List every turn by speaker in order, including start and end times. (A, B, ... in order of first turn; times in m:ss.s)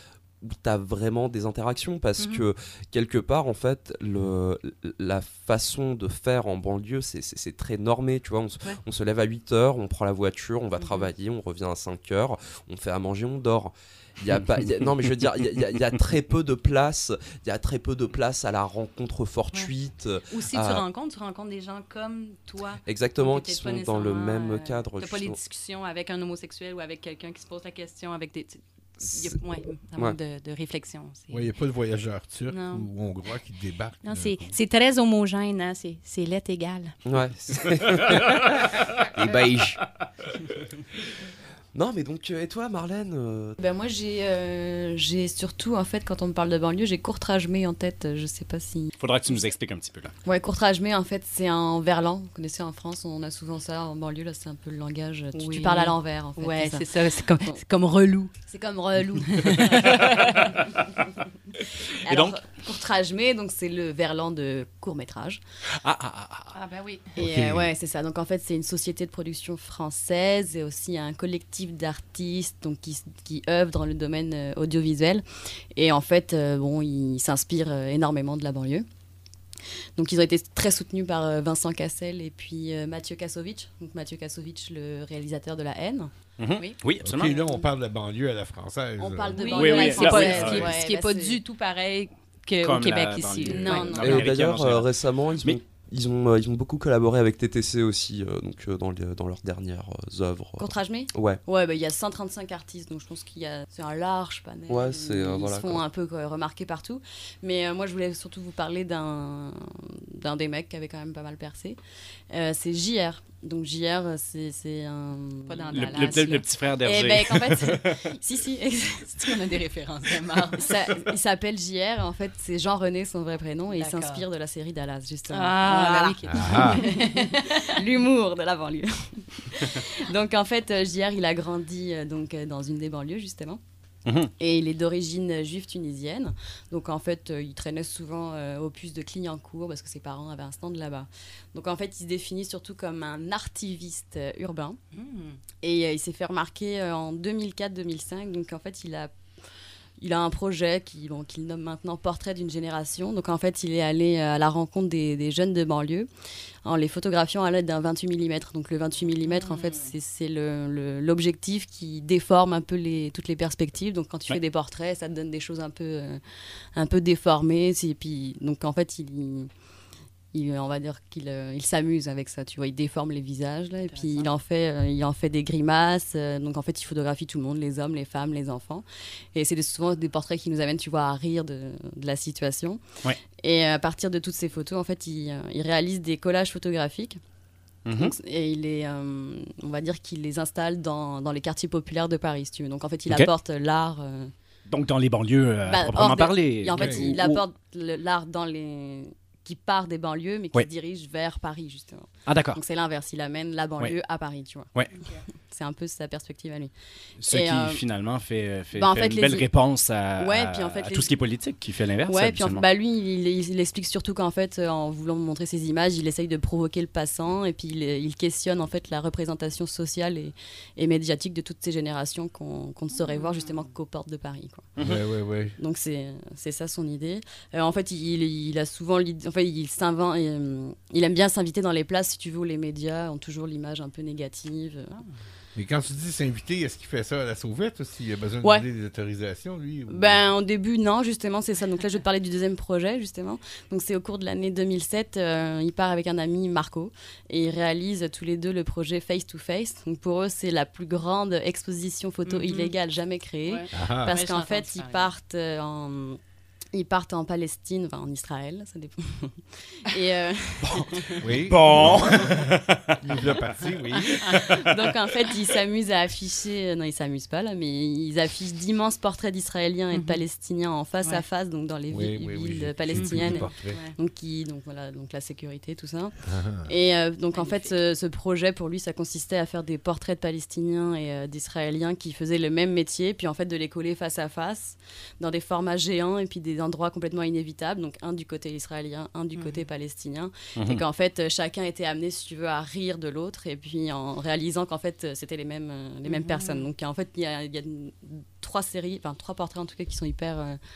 0:00.4-0:20.8 A
0:02.2-0:02.4 B
0:20.3-0:31.4 B
0:22.8-0:25.4 A
0:31.3-0:34.6 C
0:32.5-0:32.9 B
0:34.0-0:36.9 B
0:37.0-0:39.8 A
0:41.7-0:43.6 A
0:43.6-0:48.9 D
0:49.0-0:50.1 E
0:50.2-0:57.6 D
0:55.3-1:00.5 B
1:02.0-1:05.4 D
1:02.1-1:02.4 E
1:05.8-1:06.4 E
1:06.5-1:07.1 B
1:07.2-1:18.8 D
1:07.2-1:07.7 C
1:20.0-1:26.1 D
1:26.4-1:27.4 E
1:27.0-1:30.6 C
1:29.0-1:31.4 D
1:29.3-1:34.2 B
1:29.5-1:30.7 E
1:32.6-1:34.9 E
1:33.5-1:34.2 D
1:34.0-1:41.4 A
1:40.6-1:51.8 D
1:44.7-1:45.8 A
1:52.3-1:59.5 D
1:55.4-1:56.4 B
1:55.7-1:58.1 E
1:59.1-2:00.6 B
2:00.5-2:13.6 D
2:00.7-2:01.0 E
2:03.7-2:04.2 B
2:05.3-2:07.2 B
2:06.3-2:06.8 C
2:14.0-2:14.3 E
2:14.4-2:24.8 D
2:24.9-2:25.4 B
2:25.6-2:29.1 D
2:30.0-2:36.1 D
2:36.6-2:46.2 D
2:46.7-2:49.5 D
2:50.3-3:02.8 D
2:53.8-2:54.3 B
3:03.4-3:07.2 D
3:07.8-3:08.1 E
3:07.9-3:14.3 D
3:13.0-3:13.3 E
3:14.7-3:17.4 E
3:15.6-3:27.8 D
3:16.8-3:17.1 C
3:22.2-3:22.6 E
3:24.7-3:25.0 E
3:27.2-3:32.6 E
3:28.7-3:29.5 D
3:30.2-3:31.2 D
3:32.0-3:44.7 D
3:44.8-3:45.0 E
3:44.8-3:45.6 C
3:45.6-3:55.0 D
3:55.5-4:00.2 C
3:59.9-4:16.2 D
4:12.2-4:12.7 B
4:13.4-4:15.1 B
4:13.7-4:14.2 C
4:16.7-4:21.3 D
4:20.6-4:23.0 E
4:21.2-4:22.5 C
4:23.0-4:24.7 C
4:24.0-5:00.6 D
4:29.9-4:30.2 B
4:31.9-4:33.8 C
4:33.0-4:33.9 B
4:36.2-4:36.7 C
4:37.3-4:37.8 B
4:49.4-4:49.6 B
4:50.6-4:50.8 E
4:56.0-4:56.6 B